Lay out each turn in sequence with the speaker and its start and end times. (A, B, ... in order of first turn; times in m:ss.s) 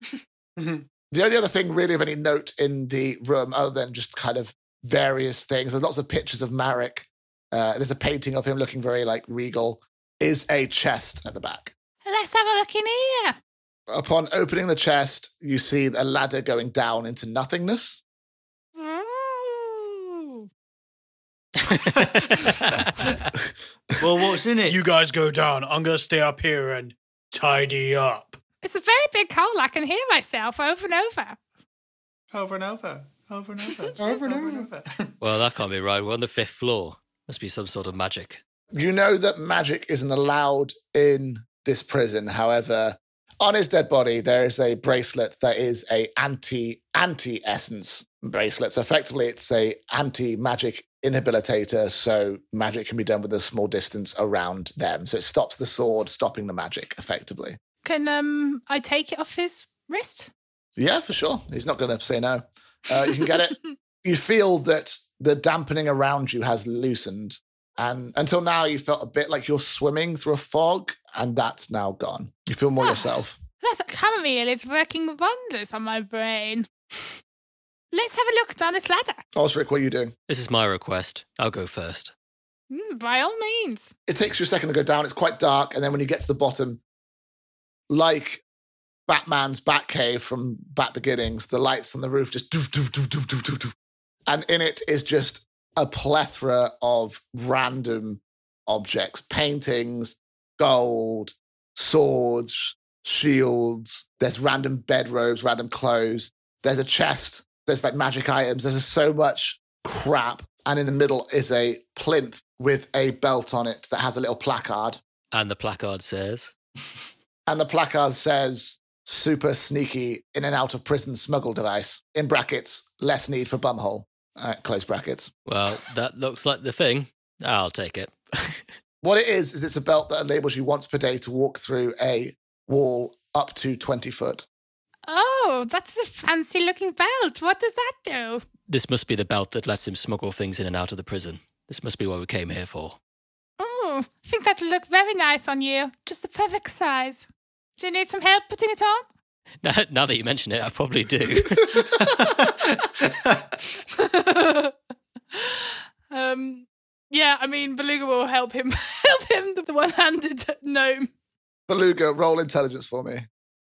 0:00.6-0:00.8 A
0:01.1-0:11.7 B
0:12.0-0:13.4 C
0:13.9-0:18.0 B
0:18.8-0:20.5 C
0:21.7-0:23.2 D
0:24.0-0:24.8 E
0:24.7-0:28.4 A
0:28.6-0:31.4 C
0:32.3-0:34.9 E
0:34.0-0:35.1 A
0:35.2-0:38.4 D
0:38.7-0:57.6 B
0:57.8-1:00.3 C
1:00.8-1:13.4 B
1:12.8-1:16.7 C
1:17.9-1:19.2 C
1:19.3-1:20.1 B
1:20.3-1:22.1 D
1:22.7-1:23.9 C
1:24.1-1:26.8 B
1:27.9-1:28.4 B
1:29.1-1:33.7 B
1:34.3-1:55.0 B
1:55.3-1:56.5 D
1:57.5-2:05.3 B
2:05.4-2:08.6 D
2:09.0-2:14.4 B
2:15.1-2:18.4 C
2:18.7-2:23.0 D
2:23.6-2:27.2 C
2:27.8-2:29.0 C
2:29.6-2:31.9 D
2:31.9-2:32.5 C
2:32.2-2:33.5 E
2:33.9-2:34.7 C
2:35.3-2:41.1 C
2:41.7-2:43.2 B